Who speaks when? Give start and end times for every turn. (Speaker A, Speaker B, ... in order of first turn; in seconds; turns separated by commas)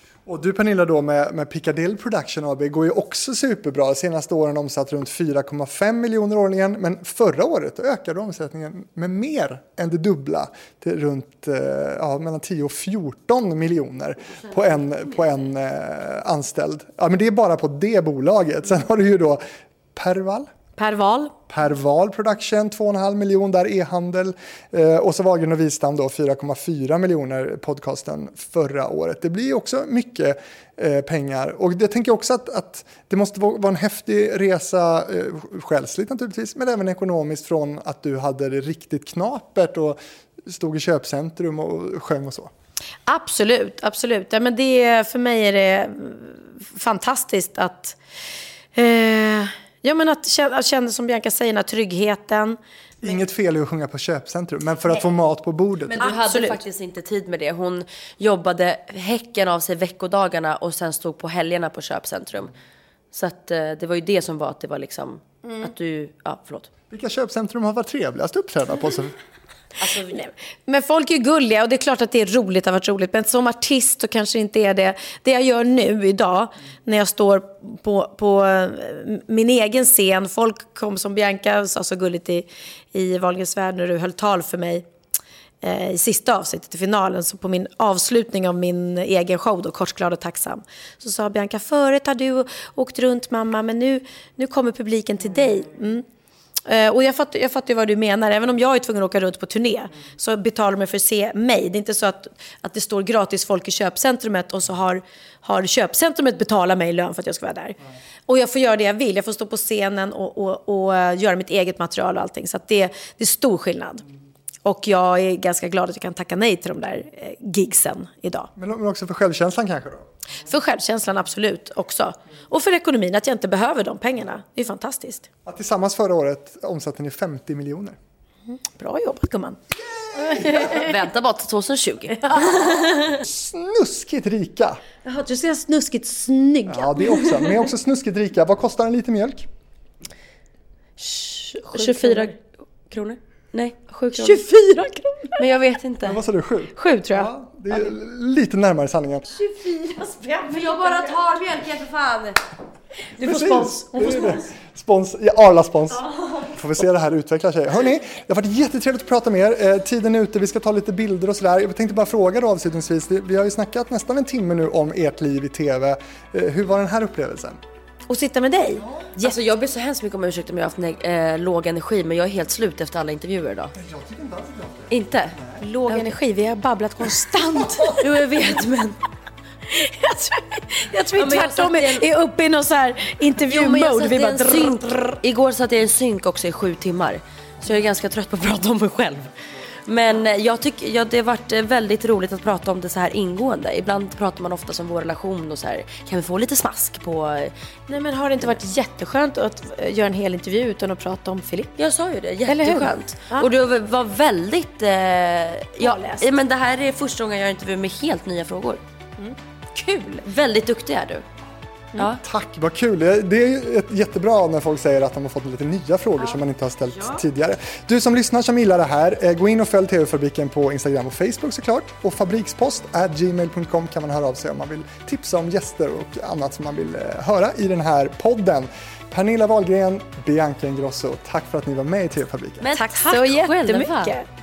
Speaker A: 0.2-19.4, Speaker A: 19.9-20.5, Speaker B: 20.8-21.3, Speaker A: 21.5-42.5, Speaker B: 43.1-48.0, Speaker B: 48.7-52.6, Speaker A: 53.0-56.0, Speaker C: 55.9-62.5, Speaker B: 56.0-56.6, Speaker C: 63.1-66.7, Speaker B: 65.4-65.7, Speaker A: 66.9-69.2, Speaker C: 69.8-70.3, Speaker B: 70.1-84.8, Speaker B: 85.6-96.0, Speaker B: 96.6-107.8, Speaker B: 108.3-114.0, Speaker B: 114.6-118.5, Speaker A: 118.5-120.1, Speaker B: 120.4-125.3, Speaker A: 125.5-128.0, Speaker B: 128.8-129.6, Speaker B: 130.2-130.9, Speaker C: 130.4-133.2, Speaker B: 132.2-132.8, Speaker A: 133.1-134.8, Speaker B: 135.0-137.3, Speaker A: 136.7-139.5, Speaker C: 141.0-144.4, Speaker B: 141.7-142.3, Speaker B: 144.2-145.4, Speaker C: 145.4-146.2, Speaker A: 146.0-149.2, Speaker B: 146.7-147.3, Speaker B: 149.3-151.4, Speaker C: 150.5-152.4, Speaker B: 153.2-154.4, Speaker A: 153.2-167.6, Speaker B: 168.1-169.4, Speaker A: 168.8-169.1, Speaker C: 169.2-173.7, Speaker A: 173.7-175.6, Speaker C: 174.9-175.3, Speaker B: 175.6-178.1, Speaker A: 177.6-177.9, Speaker C: 178.0-179.0, Speaker B: 179.7-185.2, Speaker C: 181.1-182.0, Speaker C: 183.5-189.3, Speaker C: 189.9-197.5, Speaker B: 197.9-201.7, Speaker C: 201.8-208.8, Speaker B: 202.5-203.5, Speaker B: 205.8-206.3, Speaker B: 209.2-210.2, Speaker C: 210.2-211.2, Speaker A: 212.2-232.7, Speaker C: 232.6-234.2, Speaker B: 232.7-234.3